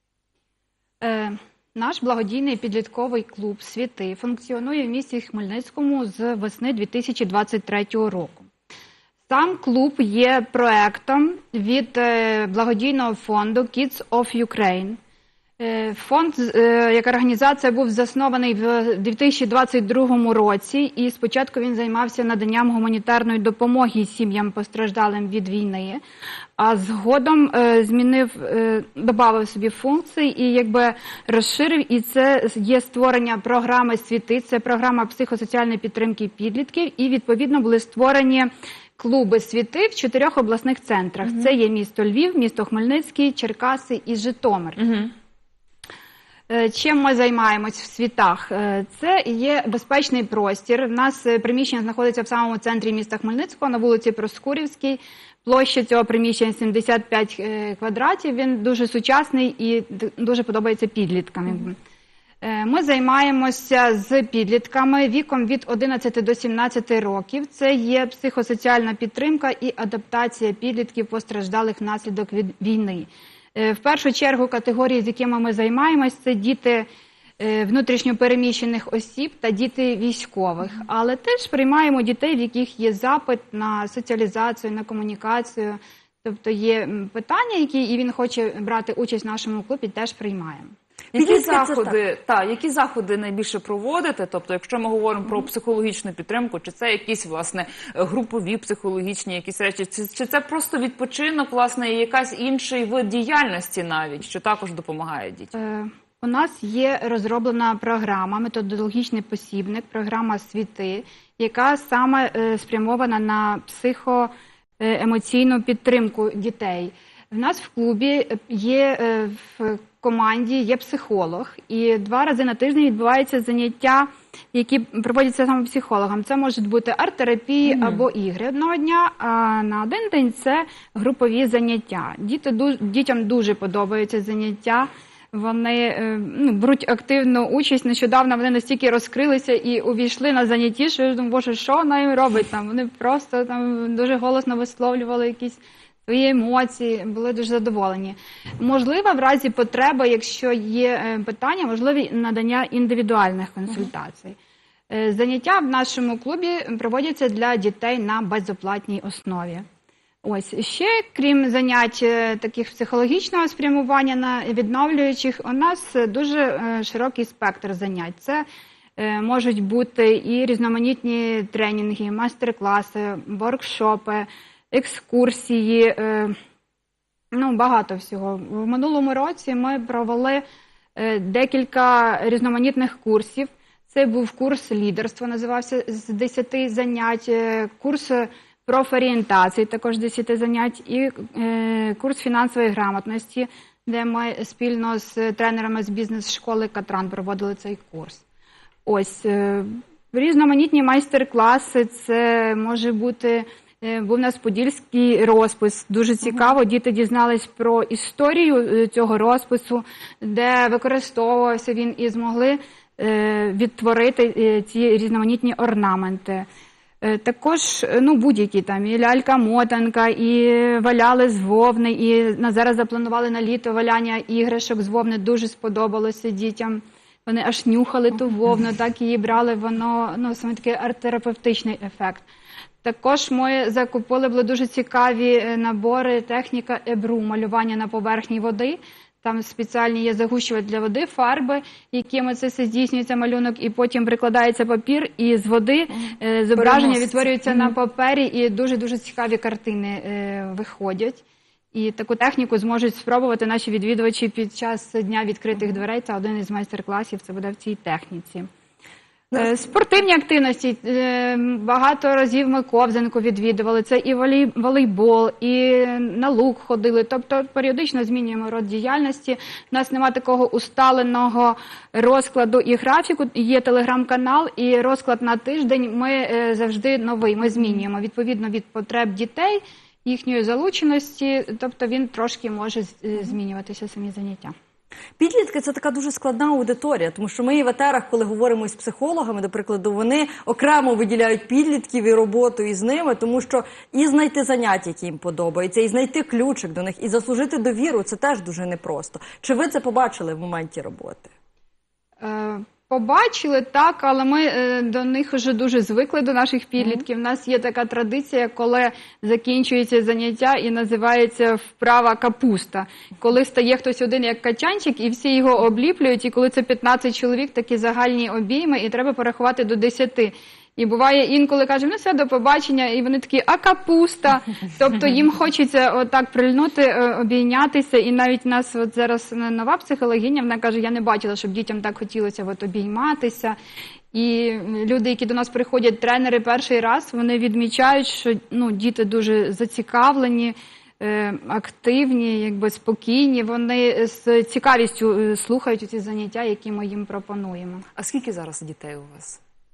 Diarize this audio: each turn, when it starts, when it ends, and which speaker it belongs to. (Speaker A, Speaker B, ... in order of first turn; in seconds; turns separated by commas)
Speaker A: 1.0-8.5, Speaker A: 9.3-15.0, Speaker A: 15.6-26.0, Speaker A: 26.6-44.9, Speaker B: 41.2-41.5, Speaker B: 44.8-45.1, Speaker A: 46.5-61.8, Speaker A: 62.4-76.9, Speaker A: 77.4-90.7, Speaker C: 91.1-91.9, Speaker B: 91.1-105.5, Speaker A: 105.5-154.4, Speaker B: 127.6-128.1, Speaker A: 154.9-159.7, Speaker A: 160.2-168.4, Speaker A: 169.0-176.4, Speaker A: 177.3-180.4, Speaker A: 180.9-198.2, Speaker A: 198.8-216.4, Speaker A: 217.0-232.2, Speaker A: 232.8-251.2, Speaker B: 246.5-247.7, Speaker A: 251.7-258.5, Speaker A: 259.3-284.5, Speaker C: 285.2-301.3, Speaker A: 302.2-333.6, Speaker A: 334.1-347.9, Speaker B: 347.9-349.4